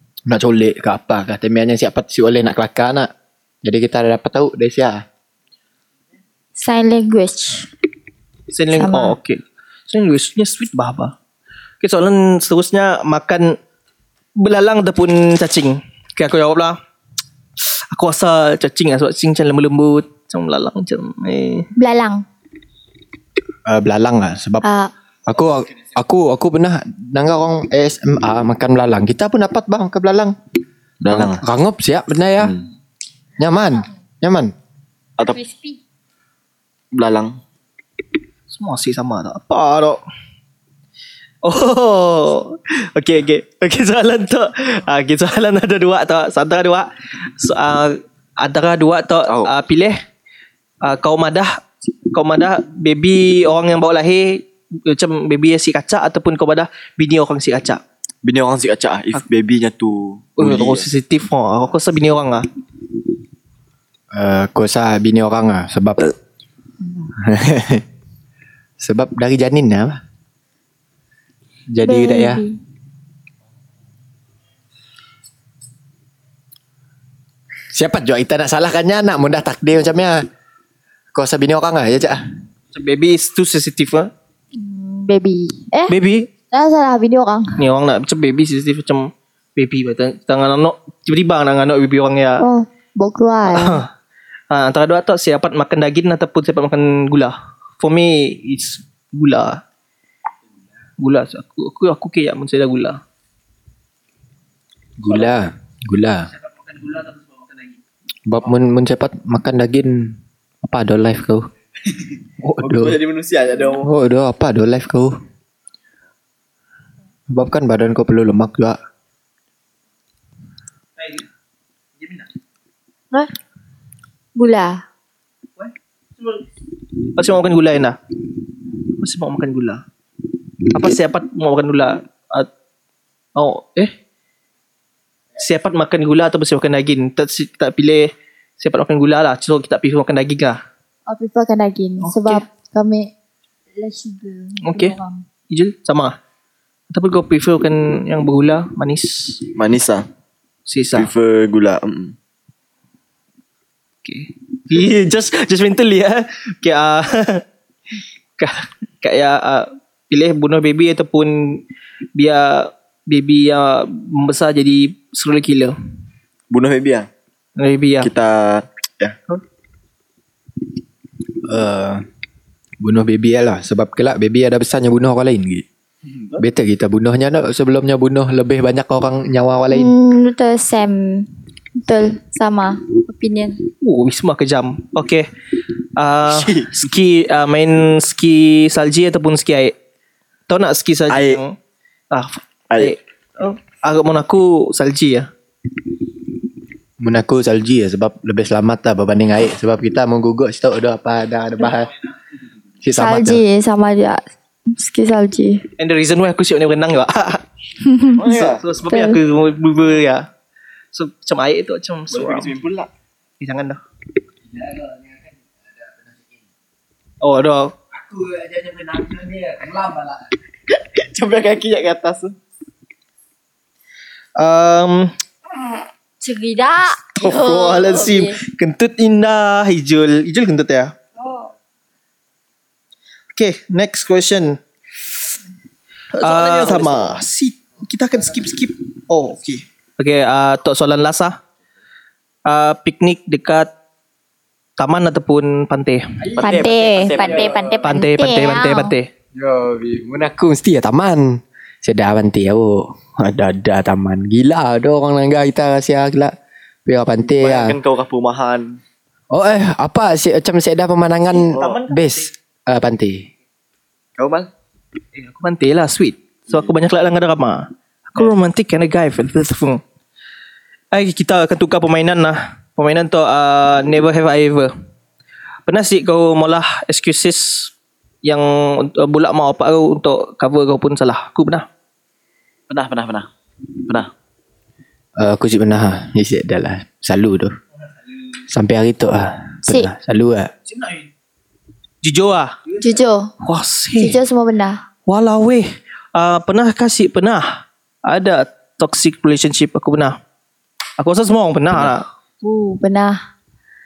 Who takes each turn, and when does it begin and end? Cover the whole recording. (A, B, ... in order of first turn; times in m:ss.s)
0:00.3-0:03.1 A
0:03.6-0:05.0 A
0:06.6-0:07.7 B
0:08.5-0:11.2 C
0:08.7-0:09.2 B
0:11.8-0:13.6 C
0:14.4-0:16.8 C
0:17.9-0:21.7 C
0:21.8-0:22.2 B
0:23.7-0:24.7 A
0:24.6-0:24.9 B
0:25.3-0:30.3 A
0:31.0-0:31.4 D
0:31.1-0:32.6 A
0:32.4-0:32.6 D
0:33.4-0:34.5 A
0:35.3-0:35.8 B
0:36.9-0:37.4 D
0:38.5-0:40.0 C
0:41.4-0:50.0 C
0:50.8-0:57.8 C
0:58.2-1:00.9 D
1:00.4-1:02.5 C
1:04.1-1:06.1 A
1:07.2-1:07.8 A
1:08.8-1:10.0 A
1:11.7-1:12.4 A
1:11.8-1:12.6 B
1:17.7-1:20.2 A
1:21.1-1:22.2 A
1:22.7-1:24.1 C
1:24.5-1:26.0 B
1:25.9-1:26.3 C
1:26.5-1:27.6 B
1:27.6-1:32.4 C
1:32.4-1:33.8 B
1:33.5-1:33.9 C
1:34.5-1:39.6 C
1:41.0-1:43.0 C
1:45.0-1:46.3 A
1:48.3-1:51.5 A
1:51.9-1:53.9 D
1:52.4-1:53.0 A
1:53.8-1:55.1 A
1:57.3-1:58.8 A
2:01.0-2:01.2 C
2:02.0-2:02.3 C
2:04.4-2:04.8 B
2:05.6-2:06.5 C
2:07.2-2:08.0 C
2:09.0-2:09.8 C
2:10.7-2:12.5 C
2:13.4-2:14.0 C
2:15.4-2:20.6 C
2:21.1-2:23.1 B
2:22.0-2:22.4 C
2:23.8-2:25.3 B
2:24.6-2:25.0 C
2:25.5-2:26.2 C
2:26.9-2:29.4 C
2:29.6-2:30.1 D
2:30.7-2:31.1 C
2:31.0-2:32.2 D
2:34.0-2:37.4 C
2:38.4-2:41.6 C
2:42.2-2:45.8 C
2:46.5-2:47.1 D
2:47.6-2:48.1 C
2:48.0-2:49.2 D
2:51.4-2:52.0 A
2:52.8-2:55.7 A
2:56.1-2:56.4 D
2:56.4-2:59.9 A
2:59.7-3:03.6 B
3:03.8-3:05.3 C
3:06.0-3:09.8 C
3:06.2-3:06.8 D
3:10.5-3:11.6 C
3:11.1-3:11.4 D
3:12.1-3:15.3 C
3:17.0-3:21.9 A
3:22.8-3:23.4 A
3:23.0-3:25.6 B
3:25.8-3:27.4 C
3:27.8-3:28.2 B
3:28.2-3:28.6 D
3:28.2-3:30.3 C
3:28.9-3:29.2 B
3:30.9-3:32.5 C
3:32.1-3:32.9 D
3:33.4-3:33.8 C
3:34.5-3:36.4 A
3:37.2-3:37.7 C
3:37.9-3:40.4 A
3:40.8-3:42.4 D
3:44.4-3:45.1 C
3:46.2-3:48.4 B
3:47.2-3:51.0 C
3:53.4-3:54.6 C
3:56.2-4:01.4 C
3:56.2-3:57.2 D
4:02.5-4:03.7 C
4:04.8-4:06.0 C
4:06.4-4:07.7 A
4:06.4-4:07.8 D
4:06.4-4:09.0 B
4:07.8-4:09.1 C
4:09.4-4:16.3 A
4:16.9-4:17.8 A
4:17.2-4:18.8 D
4:19.3-4:23.3 A
4:21.5-4:21.8 D
4:21.5-4:22.3 C
4:24.2-4:24.5 D
4:25.2-4:29.8 C
4:30.9-4:34.7 C
4:35.7-4:37.7 C
4:38.2-4:41.7 C
4:42.7-4:43.3 D
4:43.8-4:44.1 D
4:45.2-4:47.6 A
4:48.5-4:50.5 A
4:52.0-4:52.6 C
4:52.8-4:53.3 B
4:53.4-4:54.2 C
4:54.0-4:54.8 B
4:55.1-5:00.2 C
5:01.0-5:02.1 C
5:02.4-5:03.2 B